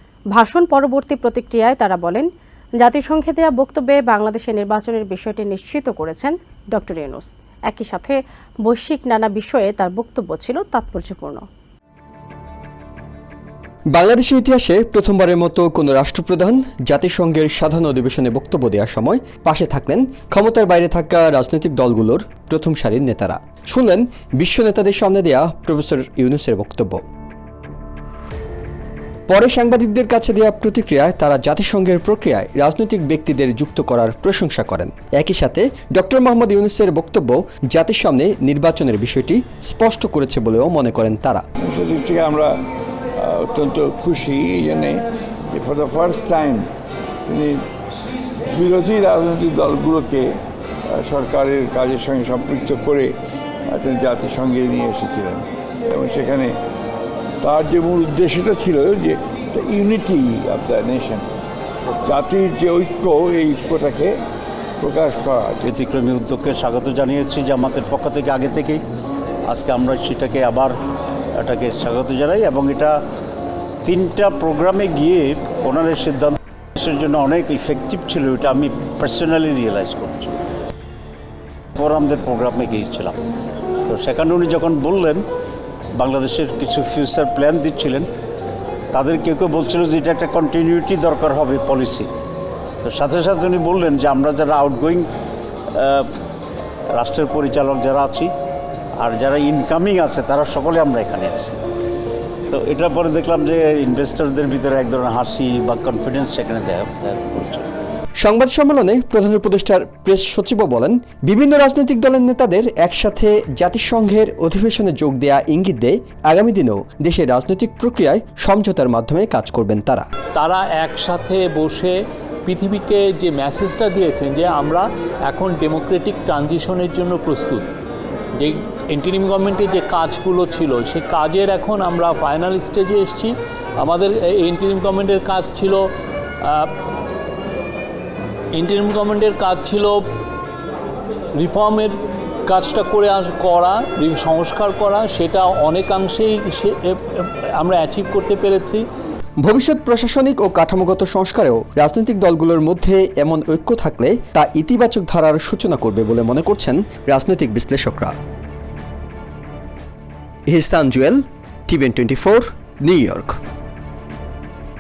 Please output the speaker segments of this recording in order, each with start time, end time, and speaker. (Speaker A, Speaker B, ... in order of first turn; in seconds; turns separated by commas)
Speaker A: 0.3-2.3, Speaker A: 2.8-11.5, Speaker B: 13.9-27.0, Speaker B: 29.3-41.4, Speaker C: 41.6-42.5, Speaker C: 43.2-46.7, Speaker C: 47.3-47.6, Speaker C: 48.5-50.3, Speaker C: 50.9-53.1, Speaker C: 53.7-56.5, Speaker C: 57.4-61.2, Speaker C: 62.0-64.2, Speaker C: 64.8-65.7, Speaker D: 65.7-68.8, Speaker D: 69.5-70.7, Speaker D: 71.4-73.0, Speaker D: 73.8-80.4, Speaker D: 81.8-83.2, Speaker D: 83.9-85.2, Speaker D: 86.0-88.1, Speaker D: 88.9-92.1, Speaker D: 92.8-95.1, Speaker D: 95.7-96.1, Speaker D: 97.0-98.3, Speaker D: 99.0-101.6, Speaker D: 102.5-107.7, Speaker B: 108.2-120.1, Speaker E: 120.3-127.7, Speaker E: 128.4-135.9, Speaker E: 136.4-136.7, Speaker E: 138.6-140.0, Speaker E: 141.4-141.9, Speaker E: 142.5-148.8, Speaker B: 149.4-158.1, Speaker B: 160.5-163.4